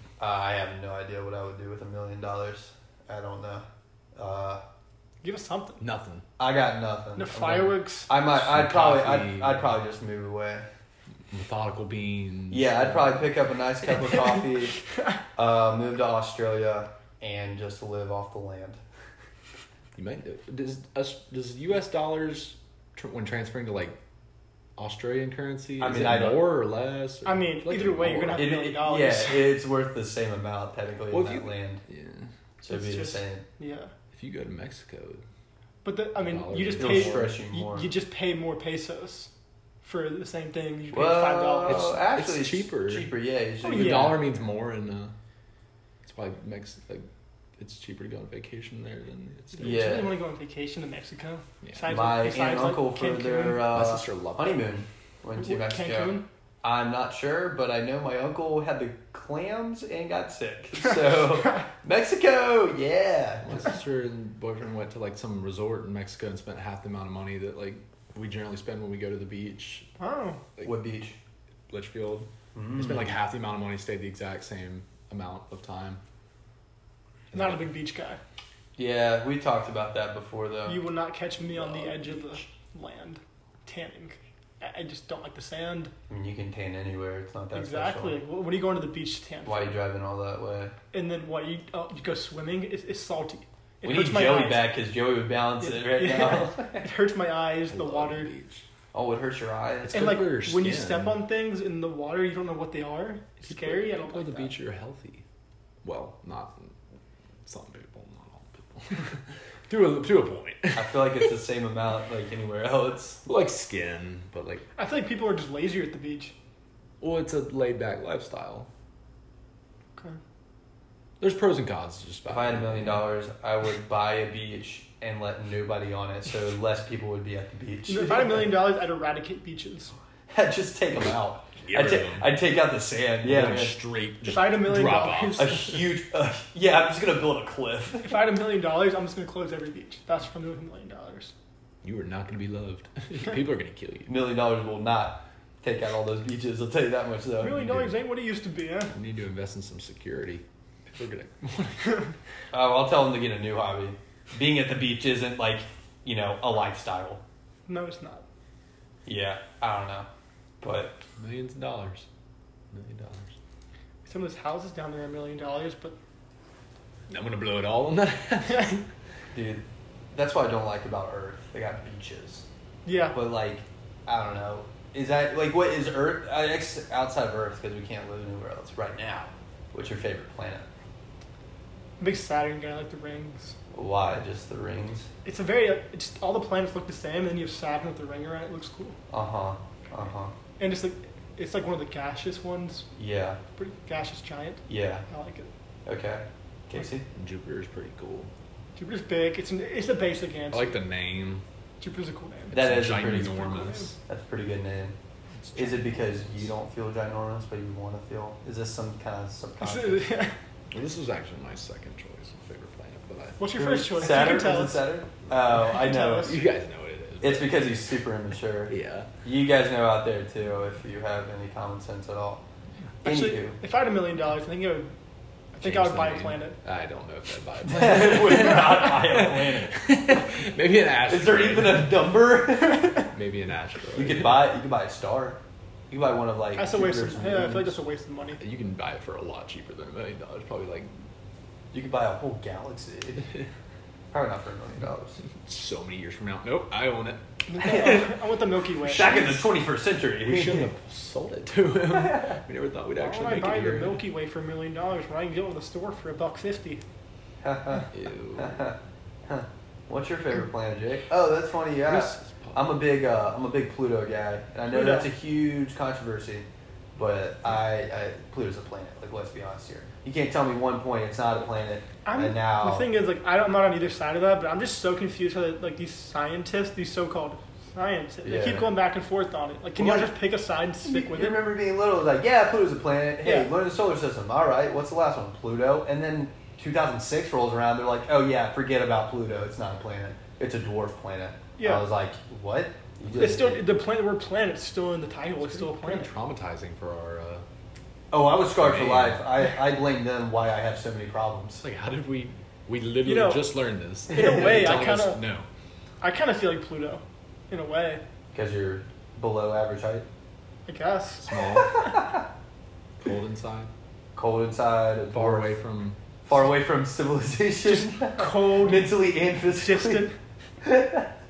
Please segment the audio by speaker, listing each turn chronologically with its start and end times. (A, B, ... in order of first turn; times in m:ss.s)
0:00.2-0:04.6 A
0:05.2-0:05.8 B
0:05.8-0:06.2 C
0:06.4-0:10.7 A
0:07.2-0:08.1 B
0:08.2-0:09.7 C
0:11.3-0:13.3 C
0:12.5-0:14.8 A
0:15.4-0:18.8 A
0:20.0-0:24.0 C
0:24.8-0:28.4 C
0:25.8-0:26.5 A
0:27.2-0:29.5 B
0:28.3-0:31.8 A
0:31.1-0:32.3 C
0:32.6-0:33.4 A
0:32.7-0:33.9 B
0:34.1-0:35.2 C
0:35.8-0:39.3 B
0:36.2-0:37.3 C
0:36.8-0:37.9 A
0:39.8-0:41.9 B
0:40.9-0:44.3 A
0:41.7-0:43.1 C
0:43.6-0:44.2 B
0:43.6-0:45.1 C
0:46.0-0:49.8 C
0:49.5-0:53.7 B
0:49.6-0:50.2 A
0:51.6-0:52.0 C
0:51.9-1:03.7 A
0:53.6-0:54.6 C
0:55.4-0:56.2 B
1:03.4-1:09.9 C
1:10.0-1:10.4 B
1:10.6-1:11.2 A
1:11.7-1:16.0 C
1:12.5-1:13.1 A
1:17.3-1:18.2 B
1:18.8-1:20.8 A
1:20.7-1:25.9 B
1:21.5-1:22.4 C
1:26.1-1:28.2 A
1:27.5-1:29.8 B
1:29.4-1:30.8 A
1:30.9-1:34.8 B
1:33.8-1:36.9 A
1:35.6-1:38.3 B
1:37.7-1:38.6 C
1:38.9-1:40.2 A
1:39.8-1:41.2 C
1:39.9-1:44.5 B
1:43.5-1:45.2 C
1:45.8-1:46.8 C
1:47.4-1:51.3 C
1:50.7-1:53.2 A
1:53.2-1:54.6 C
1:54.8-1:56.3 B
1:57.0-1:58.7 C
2:01.2-2:03.1 C
2:02.3-2:08.6 A
2:07.9-2:09.9 B
2:10.3-2:13.8 A
2:11.0-2:12.3 C
2:13.2-2:15.6 C
2:14.3-2:15.7 B
2:15.4-2:18.2 A
2:18.0-2:21.3 B
2:21.8-2:24.2 C
2:24.1-2:27.9 A
2:27.4-2:28.9 B
2:28.9-2:32.1 C
2:32.5-2:37.2 A
2:37.7-2:38.2 B
2:39.1-2:40.1 A
2:40.6-2:41.0 A
2:41.2-2:42.1 C
2:42.7-2:43.3 C
2:44.0-2:46.0 B
2:47.1-2:48.8 C
2:49.3-2:52.5 A
2:52.8-2:53.2 B
2:53.1-3:00.7 A
3:02.0-3:03.6 B
3:03.7-3:05.1 A
3:05.2-3:09.0 B
3:09.1-3:10.3 A
3:10.6-3:12.9 B
3:13.0-3:13.4 A
3:13.6-3:15.5 B
3:14.7-3:15.0 A
3:15.8-3:17.0 A
3:17.1-3:18.3 C
3:18.8-3:20.8 B
3:20.5-3:21.4 C
3:21.8-3:22.7 B
3:22.5-3:23.5 A
3:22.5-3:24.0 C
3:23.2-3:23.9 B
3:24.1-3:25.0 A
3:25.4-3:26.5 C
3:25.5-3:30.1 A
3:29.6-3:30.3 B
3:30.7-3:33.4 C
3:33.4-3:34.8 B
3:33.5-3:36.4 A
3:35.6-3:36.4 B
3:36.2-3:37.7 C
3:37.2-3:42.4 A
3:38.7-3:39.1 C
3:43.0-3:43.6 A
3:43.0-3:44.9 B
3:45.5-3:46.6 B
3:45.6-3:52.0 C
3:47.6-3:50.3 A
3:51.1-3:53.1 A
3:53.1-3:54.4 C
3:54.0-3:57.8 A
3:56.6-3:58.4 B
3:58.4-4:00.9 C
4:01.7-4:03.3 A
4:04.1-4:05.2 A
4:05.4-4:07.2 C
4:07.5-4:09.4 B
4:07.6-4:08.1 A
4:08.8-4:10.7 A
4:10.2-4:14.0 C
4:11.9-4:12.4 A
4:13.0-4:16.8 B
4:17.4-4:32.9 A
4:17.9-4:18.7 C
4:21.8-4:22.7 C
4:24.7-4:25.1 B
4:32.0-4:41.4 B
4:38.2-4:38.7 A
4:39.8-4:40.1 A
4:40.8-4:53.6 A
4:43.2-4:43.5 B
4:51.6-4:51.9 B
4:53.1-4:56.1 B
4:55.4-4:57.4 C
4:58.1-5:01.6 A
4:58.6-4:59.3 C
5:01.6-5:05.5 C
5:03.0-5:03.5 B
5:04.1-5:05.2 B
5:06.0-5:08.0 B
5:08.3-5:10.0 A
5:10.7-5:11.3 B
5:11.2-5:12.0 C
5:11.5-5:12.2 A
5:13.0-5:13.7 C
5:14.1-5:15.6 A
5:15.1-5:16.0 C
5:16.2-5:20.0 A
5:17.6-5:18.9 B
5:19.6-5:20.2 B
5:20.6-5:21.1 A